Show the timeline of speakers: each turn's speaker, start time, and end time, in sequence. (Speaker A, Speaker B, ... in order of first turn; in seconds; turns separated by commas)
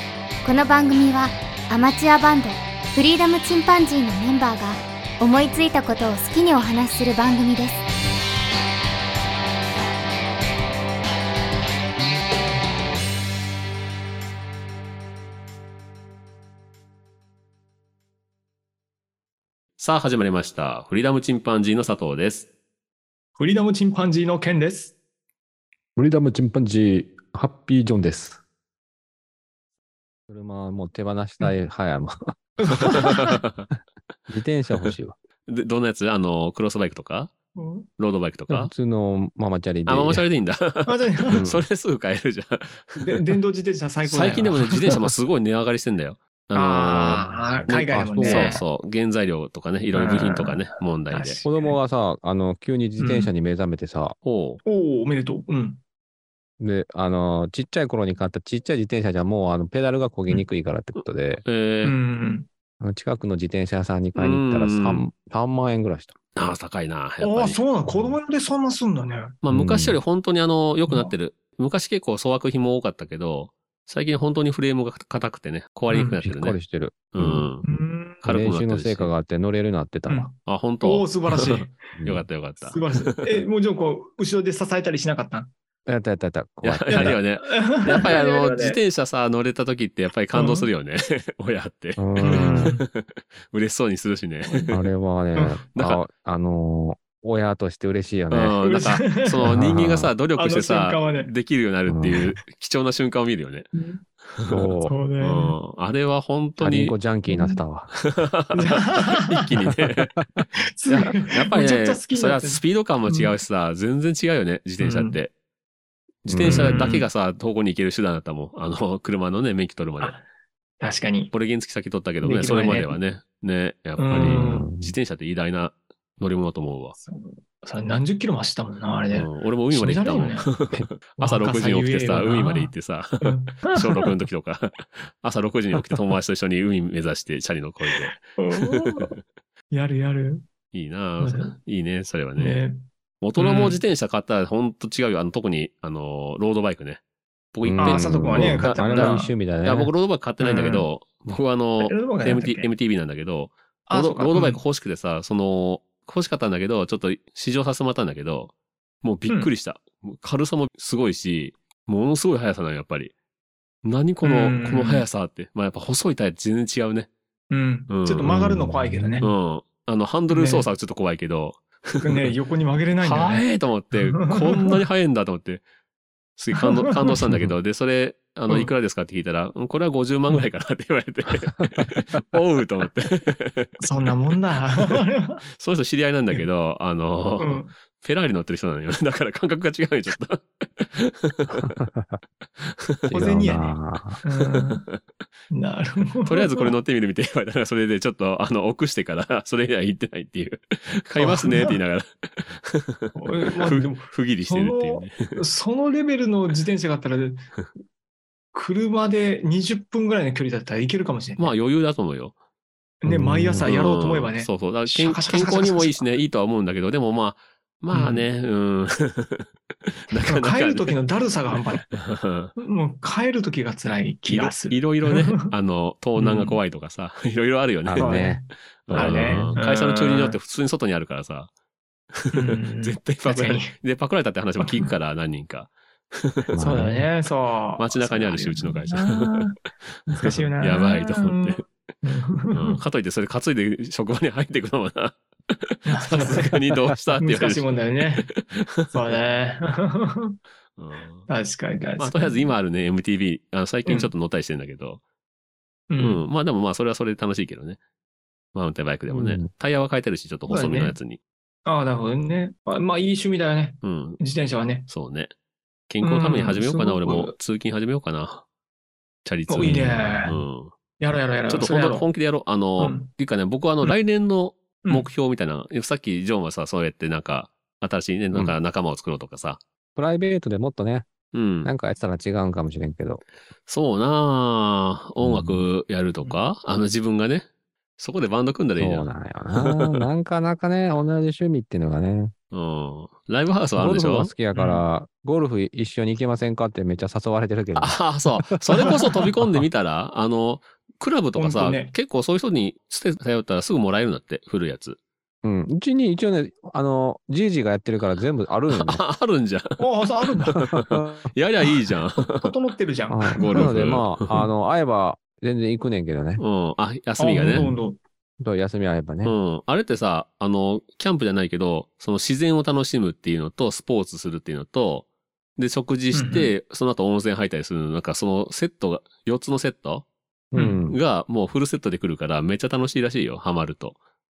Speaker A: 0.4-7.8, Speaker B: 19.8-22.5, Speaker C: 23.4-24.9, Speaker D: 26.0-28.4, Speaker D: 30.3-32.4, Speaker C: 32.6-33.4, Speaker B: 32.8-33.7, Speaker D: 34.3-35.1, Speaker B: 35.5-37.3, Speaker C: 37.6-37.9, Speaker B: 38.0-38.7, Speaker D: 38.5-40.2, Speaker B: 39.9-43.2, Speaker C: 40.9-41.5, Speaker D: 41.3-41.6, Speaker C: 43.0-45.0, Speaker B: 44.1-51.4, Speaker C: 46.5-48.6, Speaker D: 47.1-48.6, Speaker C: 49.9-51.8, Speaker D: 51.5-54.2, Speaker C: 53.0-53.3, Speaker B: 54.2-54.6, Speaker C: 54.6-55.8, Speaker D: 56.6-61.4, Speaker B: 61.0-62.0, Speaker C: 61.8-62.5, Speaker D: 62.8-66.2, Speaker B: 64.2-65.0, Speaker B: 66.4-67.6, Speaker C: 67.2-69.3, Speaker B: 69.4-76.6, Speaker D: 69.5-70.0, Speaker C: 70.9-71.1, Speaker C: 75.9-76.2, Speaker D: 76.2-77.5, Speaker B: 77.1-77.6, Speaker C: 77.6-78.2, Speaker B: 78.2-79.1, Speaker D: 78.2-80.3, Speaker C: 80.1-81.8, Speaker B: 80.5-83.4, Speaker D: 82.0-82.3, Speaker C: 82.6-85.5, Speaker D: 85.9-87.2, Speaker B: 86.6-94.8, Speaker C: 86.9-88.8, Speaker C: 90.3-90.7, Speaker D: 92.0-92.7, Speaker C: 92.2-92.8, Speaker C: 94.5-94.8, Speaker D: 94.7-98.6, Speaker C: 95.3-95.6, Speaker B: 95.8-96.0, Speaker B: 98.3-103.7, Speaker C: 98.6-99.7, Speaker D: 99.5-100.1, Speaker C: 100.4-101.3, Speaker D: 101.9-102.3, Speaker C: 103.7-104.0, Speaker B: 104.3-107.0, Speaker D: 104.5-105.0, Speaker C: 104.9-105.6, Speaker D: 106.6-107.9, Speaker C: 107.3-107.6, Speaker B: 108.0-110.2, Speaker C: 108.5-109.5, Speaker C: 110.5-113.3, Speaker B: 110.9-115.3, Speaker C: 114.8-115.2, Speaker B: 116.2-120.2, Speaker D: 116.3-116.8, Speaker C: 116.4-117.1, Speaker C: 120.8-121.3, Speaker B: 121.3-127.0, Speaker C: 122.2-123.0, Speaker C: 124.0-124.7, Speaker D: 124.1-124.9, Speaker C: 127.0-130.5, Speaker B: 129.1-139.1, Speaker C: 131.2-134.2, Speaker C: 137.9-139.2, Speaker C: 139.7-140.5, Speaker B: 140.7-142.6, Speaker C: 141.2-141.6, Speaker C: 142.4-142.9, Speaker B: 143.2-147.0, Speaker C: 143.4-143.8, Speaker B: 147.5-158.5, Speaker D: 147.6-149.9, Speaker C: 147.8-149.3, Speaker C: 150.4-150.9, Speaker C: 151.8-152.7, Speaker C: 153.9-154.6, Speaker B: 159.0-163.1, Speaker B: 163.8-167.1, Speaker C: 164.2-165.1, Speaker C: 167.5-169.3, Speaker B: 167.9-168.4, Speaker D: 168.2-169.2, Speaker B: 169.2-172.3, Speaker C: 170.3-170.7, Speaker C: 172.0-174.8, Speaker B: 173.0-175.6, Speaker B: 176.4-183.8, Speaker C: 176.6-177.0, Speaker C: 183.8-185.4, Speaker B: 185.6-191.8, Speaker C: 187.4-187.7, Speaker D: 191.6-192.2, Speaker B: 192.6-193.2, Speaker D: 193.1-194.2, Speaker C: 193.1-194.8, Speaker B: 194.7-195.0, Speaker C: 195.5-196.7, Speaker B: 196.2-205.4, Speaker C: 201.2-201.8, Speaker C: 203.2-207.5, Speaker C: 208.5-211.5, Speaker B: 211.4-212.3, Speaker C: 213.0-216.0, Speaker D: 213.1-213.7, Speaker B: 213.6-220.9, Speaker C: 217.9-218.3, Speaker C: 220.3-221.9, Speaker B: 221.9-222.5, Speaker C: 222.6-225.5, Speaker B: 224.3-228.2, Speaker C: 226.2-226.6, Speaker D: 227.8-229.5, Speaker C: 228.0-230.4, Speaker B: 228.9-231.5, Speaker B: 232.1-236.9, Speaker C: 232.3-233.7, Speaker C: 234.6-234.9, Speaker D: 236.5-237.1, Speaker C: 236.6-239.6, Speaker B: 237.8-241.7, Speaker C: 240.1-242.8, Speaker B: 242.5-249.0, Speaker C: 245.8-246.6, Speaker C: 247.2-248.3, Speaker C: 248.9-250.4, Speaker B: 250.8-251.3, Speaker C: 251.3-252.5, Speaker B: 252.0-255.0, Speaker C: 253.9-254.1, Speaker C: 255.9-256.2, Speaker B: 256.0-257.8, Speaker B: 258.5-261.2, Speaker D: 259.1-259.5, Speaker C: 260.5-261.0, Speaker C: 261.6-264.9, Speaker B: 263.8-264.2, Speaker B: 264.9-265.3, Speaker B: 265.9-268.4, Speaker C: 266.0-267.3, Speaker B: 269.2-270.7, Speaker C: 269.5-270.4, Speaker C: 271.0-272.1, Speaker B: 271.5-279.6, Speaker C: 272.8-273.1, Speaker C: 274.8-275.1, Speaker D: 280.0-281.1, Speaker B: 281.3-281.7, Speaker D: 281.6-283.2, Speaker B: 283.7-287.5, Speaker D: 285.2-285.7, Speaker B: 288.0-290.0, Speaker D: 288.8-292.3, Speaker B: 292.5-294.3, Speaker D: 293.8-299.6, Speaker C: 294.5-294.9, Speaker B: 297.8-305.0, Speaker C: 298.8-299.2, Speaker C: 301.4-301.9, Speaker D: 305.4-309.0, Speaker B: 308.7-309.8, Speaker C: 309.8-310.7, Speaker B: 310.5-312.6, Speaker C: 312.4-313.8, Speaker D: 313.1-316.4, Speaker B: 313.4-314.4, Speaker B: 316.4-317.8, Speaker C: 317.2-318.0, Speaker D: 317.5-317.8, Speaker D: 318.4-319.4, Speaker B: 319.2-330.1, Speaker C: 326.1-326.5, Speaker D: 330.5-331.0, Speaker C: 330.6-330.8, Speaker B: 330.9-334.0